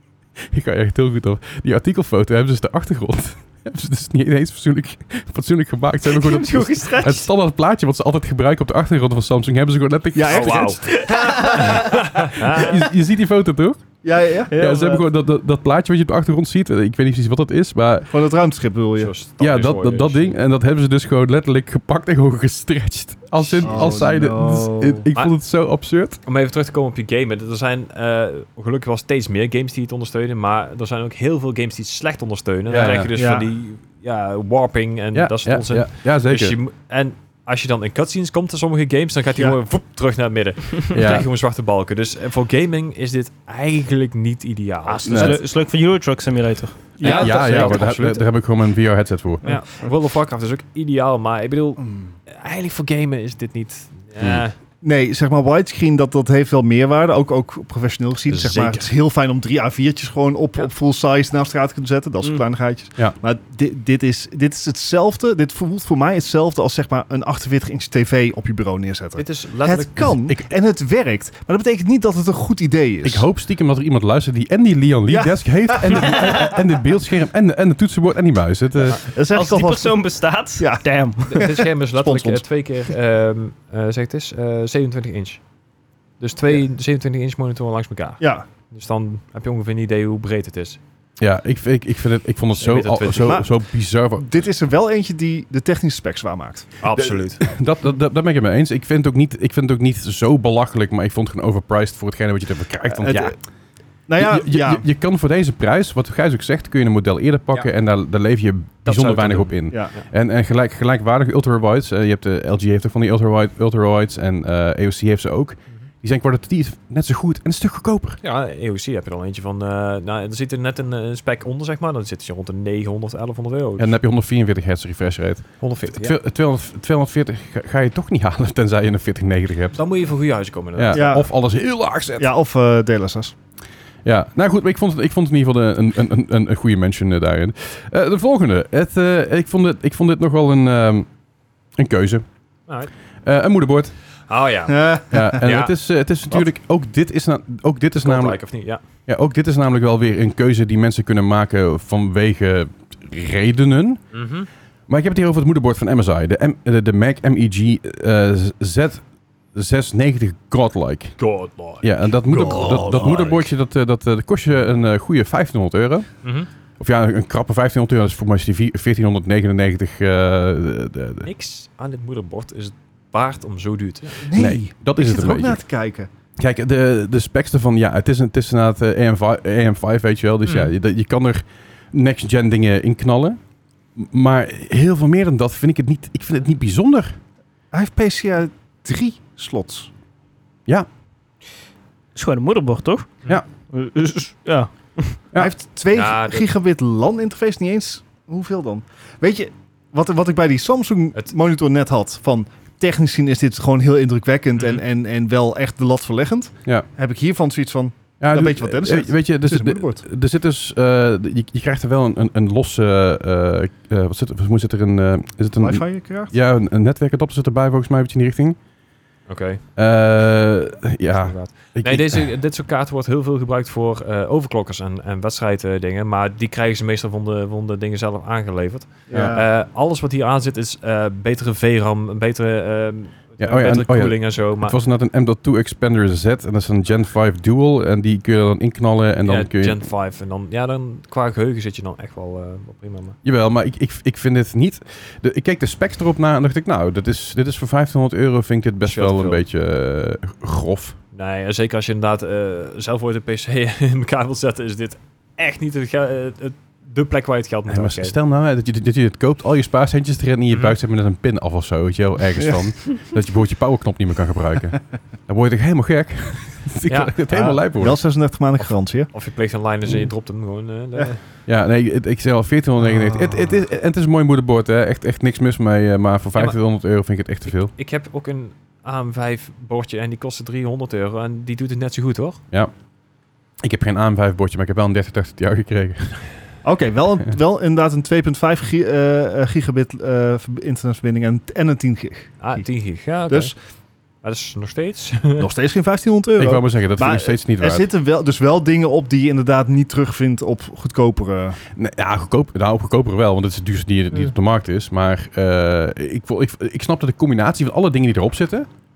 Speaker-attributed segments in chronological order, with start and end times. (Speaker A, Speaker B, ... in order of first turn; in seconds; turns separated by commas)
Speaker A: 0.5-10.7, Speaker B: 6.0-7.3, Speaker C: 10.1-12.0, Speaker D: 10.3-10.8, Speaker B: 10.9-12.1, Speaker D: 11.5-12.8, Speaker A: 12.5-13.9, Speaker C: 14.0-14.5, Speaker B: 14.5-15.0, Speaker A: 14.5-18.1, Speaker C: 18.1-19.1, Speaker D: 19.0-20.4, Speaker A: 19.4-26.2, Speaker C: 23.6-25.1, Speaker D: 26.2-45.4, Speaker A: 32.7-33.1, Speaker C: 33.1-33.5, Speaker A: 35.1-36.6, Speaker A: 40.9-41.3, Speaker B: 44.9-46.9, Speaker A: 45.0-45.4, Speaker C: 47.0-47.9, Speaker D: 47.0-48.2, Speaker A: 47.0-49.5, Speaker B: 49.4-49.9, Speaker D: 49.4-54.5, Speaker C: 54.8-73.3, Speaker D: 58.3-58.9, Speaker D: 69.2-70.1, Speaker A: 73.0-79.0, Speaker C: 75.1-76.4, Speaker C: 79.0-80.0, Speaker B: 79.3-81.5, Speaker C: 80.6-82.4, Speaker D: 81.3-85.4, Speaker D: 86.2-90.8, Speaker C: 88.2-88.5, Speaker A: 91.2-94.4, Speaker D: 92.6-93.4, Speaker C: 93.2-93.5, Speaker C: 94.2-96.7, Speaker D: 96.8-97.4, Speaker A: 97.0-103.4, Speaker C: 102.9-103.4, Speaker C: 104.1-104.8, Speaker A: 104.2-118.2, Speaker D: 108.8-110.0, Speaker D: 118.2-124.0, Speaker A: 123.8-129.8, Speaker D: 125.6-126.2, Speaker D: 129.8-131.1, Speaker A: 130.8-132.3, Speaker C: 130.9-131.3, Speaker C: 132.2-133.3, Speaker A: 134.1-141.1, Speaker A: 141.8-142.2, Speaker A: 143.2-143.9, Speaker D: 144.3-145.7, Speaker C: 144.7-145.4, Speaker A: 145.1-148.4, Speaker D: 148.0-148.8, Speaker A: 149.1-154.0, Speaker D: 154.1-154.5, Speaker A: 154.9-159.0, Speaker A: 159.5-161.2, Speaker D: 161.2-163.4, Speaker A: 161.8-166.1, Speaker C: 162.3-163.2, Speaker D: 166.2-166.5, Speaker A: 166.8-171.3, Speaker D: 171.2-174.3, Speaker C: 174.2-176.1, Speaker A: 174.3-175.6, Speaker A: 176.4-183.4, Speaker D: 180.5-180.7, Speaker A: 184.0-187.2, Speaker C: 187.7-189.9, Speaker B: 192.2-193.2, Speaker B: 193.7-195.2, Speaker C: 195.4-210.0, Speaker D: 195.9-196.5, Speaker A: 208.2-218.6, Speaker C: 215.6-216.3, Speaker D: 219.3-219.6, Speaker A: 219.8-222.3, Speaker D: 221.1-234.8, Speaker C: 229.1-229.5, Speaker A: 229.1-229.4, Speaker A: 233.4-239.8, Speaker D: 239.3-243.2, Speaker A: 243.2-251.0, Speaker D: 248.8-249.4, Speaker D: 251.1-258.1, Speaker A: 257.7-268.0, Speaker D: 266.9-267.1, Speaker C: 267.3-269.1, Speaker D: 268.6-271.2, Speaker A: 271.5-277.7, Speaker C: 272.8-273.6, Speaker D: 277.6-282.4, Speaker A: 283.6-286.3, Speaker C: 286.6-292.7, Speaker D: 292.4-293.5, Speaker C: 293.3-293.5, Speaker D: 294.2-295.5, Speaker C: 295.4-301.6, Speaker A: 296.4-297.9, Speaker A: 301.8-308.7